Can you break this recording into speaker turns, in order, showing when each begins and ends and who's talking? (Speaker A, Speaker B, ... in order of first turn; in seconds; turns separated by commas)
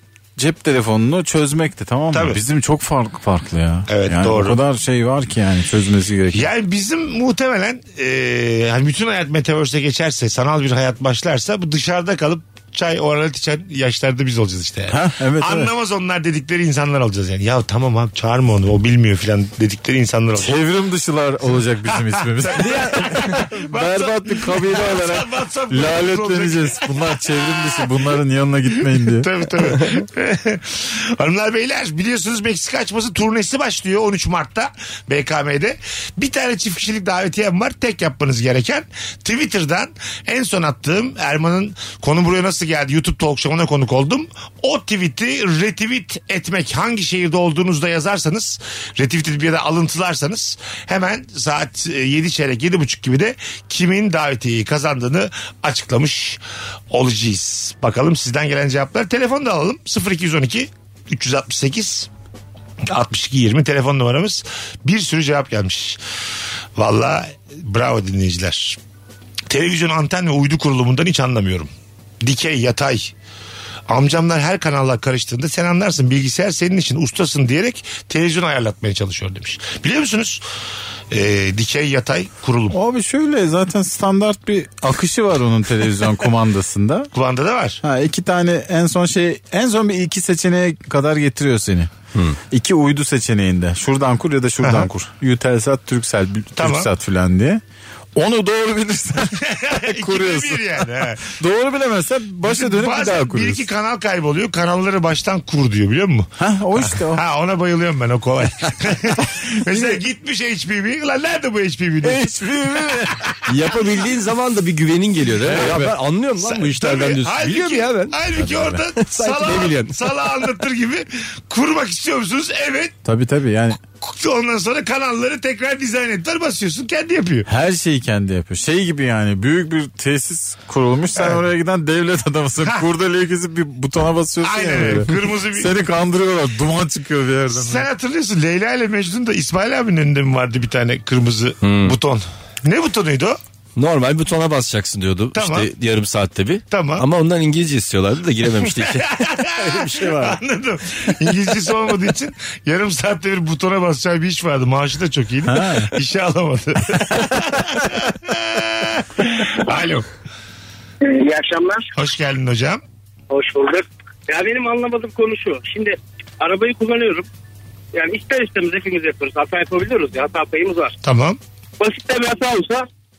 Speaker A: 0.4-6.5, Speaker B: 2.1-2.4, Speaker B: 3.9-4.6, Speaker B: 6.3-20.6, Speaker A: 14.9-15.7, Speaker A: 20.4-29.3, Speaker B: 21.9-28.1, Speaker B: 29.0-56.4, Speaker B: 56.9-62.1, Speaker B: 62.9-66.0, Speaker B: 66.8-68.8, Speaker B: 69.5-71.7, Speaker B: 72.2-73.1, Speaker B: 73.9-80.4, Speaker B: 81.1-82.8, Speaker A: 82.7-87.1, Speaker B: 87.1-87.8, Speaker A: 87.8-91.9, Speaker A: 92.5-97.6, Speaker B: 94.6-94.9, Speaker B: 96.6-96.9, Speaker A: 98.2-103.7, Speaker B: 99.4-101.3, Speaker B: 102.4-113.4, Speaker A: 106.4-107.2, Speaker A: 109.4-110.0, Speaker A: 112.0-113.2, Speaker C: 113.5-118.2, Speaker A: 115.4-116.0, Speaker B: 116.4-123.0, Speaker A: 118.4-118.8, Speaker C: 119.0-120.2, Speaker A: 123.0-123.8, Speaker B: 124.0-127.5, Speaker A: 127.5-137.9, Speaker B: 131.2-131.4, Speaker B: 134.4-135.7, Speaker B: 137.5-143.4, Speaker C: 141.6-142.0, Speaker C: 143.8-149.1, Speaker B: 145.4-145.7, Speaker B: 146.7-147.1, Speaker B: 148.6-160.1, Speaker C: 149.6-150.2, Speaker A: 149.9-150.3, Speaker A: 155.5-155.9, Speaker D: 161.0-161.9, Speaker B: 162.0-162.8, Speaker D: 163.3-167.3, Speaker D: 167.9-170.9, Speaker B: 171.0-171.4, Speaker D: 171.8-172.9